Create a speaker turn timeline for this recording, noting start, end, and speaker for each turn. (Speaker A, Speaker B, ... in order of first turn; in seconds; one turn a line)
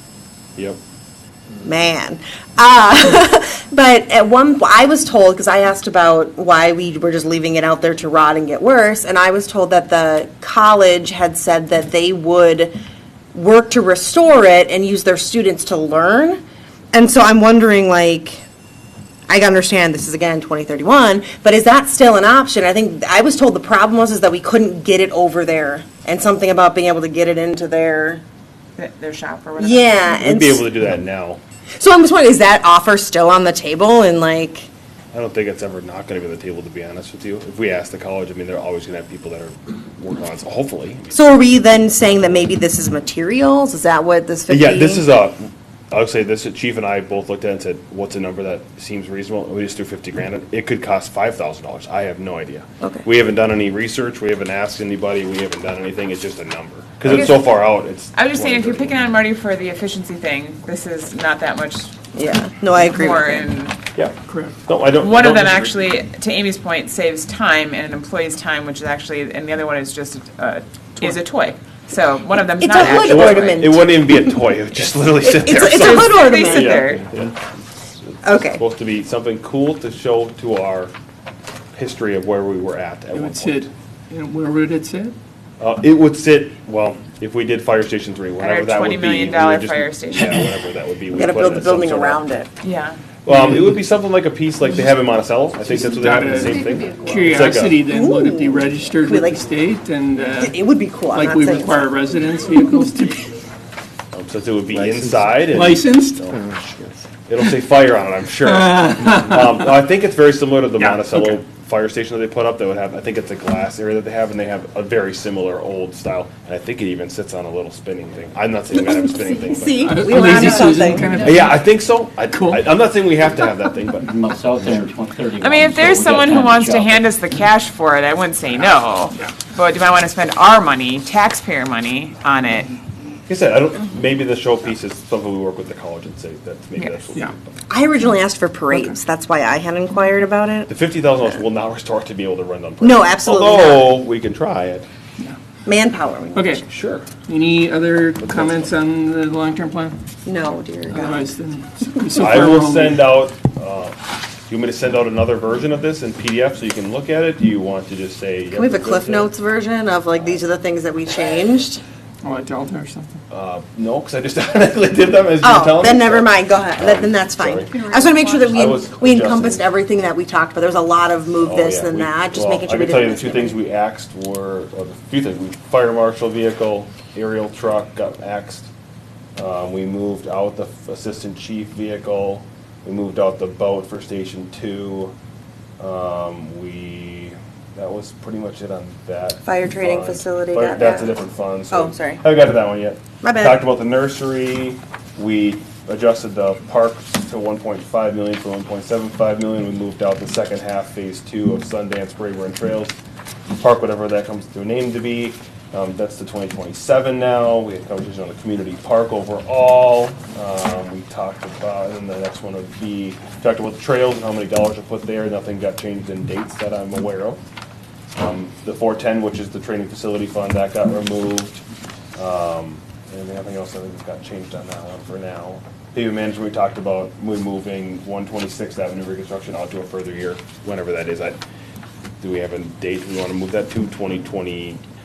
Speaker A: 1.6-12.7
Speaker A: 13.3-16.4
Speaker A: 16.9-18.4
Speaker A: 19.3-28.2
Speaker B: 28.8-30.2
Speaker A: 29.6-30.7
Speaker C: 30.1-31.4
Speaker A: 31.8-34.7
Speaker C: 35.1-41.2
Speaker A: 41.1-45.1
Speaker C: 44.5-59.1
Speaker B: 57.0-57.6
Speaker B: 58.1-61.9
Speaker A: 62.1-63.5
Speaker B: 62.7-63.8
Speaker C: 63.9-65.8
Speaker D: 64.3-64.5
Speaker B: 65.0-73.7
Speaker A: 72.6-74.4
Speaker C: 72.8-77.4
Speaker A: 75.2-76.8
Speaker B: 75.5-77.0
Speaker A: 78.2-78.6
Speaker C: 78.4-80.9
Speaker C: 81.7-83.7
Speaker D: 83.1-85.1
Speaker C: 85.6-92.2
Speaker B: 88.4-90.5
Speaker A: 91.1-92.5
Speaker B: 92.6-93.0
Speaker C: 93.2-97.8
Speaker D: 95.7-100.5
Speaker A: 97.9-99.4
Speaker A: 100.3-101.9
Speaker D: 101.1-103.3
Speaker C: 104.1-106.4
Speaker E: 104.7-105.4
Speaker D: 105.5-106.3
Speaker E: 106.5-106.9
Speaker C: 107.3-120.2
Speaker D: 108.6-109.4
Speaker A: 119.5-121.2
Speaker D: 119.8-121.7
Speaker C: 121.2-124.3
Speaker D: 122.3-122.7
Speaker E: 124.0-127.0
Speaker B: 125.4-132.7
Speaker C: 125.8-127.0
Speaker C: 133.3-137.6
Speaker A: 137.7-141.4
Speaker D: 138.7-139.0
Speaker C: 140.7-144.9
Speaker A: 142.8-144.0
Speaker A: 145.7-146.7
Speaker D: 146.3-146.6
Speaker C: 146.7-147.1
Speaker D: 147.2-149.9
Speaker C: 148.2-148.7
Speaker A: 150.2-151.3
Speaker D: 150.9-153.2
Speaker C: 152.2-153.9
Speaker C: 154.5-159.3
Speaker A: 158.5-161.8
Speaker D: 162.2-163.2
Speaker C: 163.3-167.7
Speaker A: 165.4-173.6
Speaker C: 168.4-169.6
Speaker C: 171.4-178.7
Speaker C: 179.4-185.1
Speaker C: 185.8-203.0
Speaker A: 189.4-191.2
Speaker A: 191.7-192.2
Speaker A: 193.2-193.6
Speaker C: 203.6-217.4
Speaker C: 218.1-221.6
Speaker C: 222.2-231.4
Speaker C: 232.2-234.8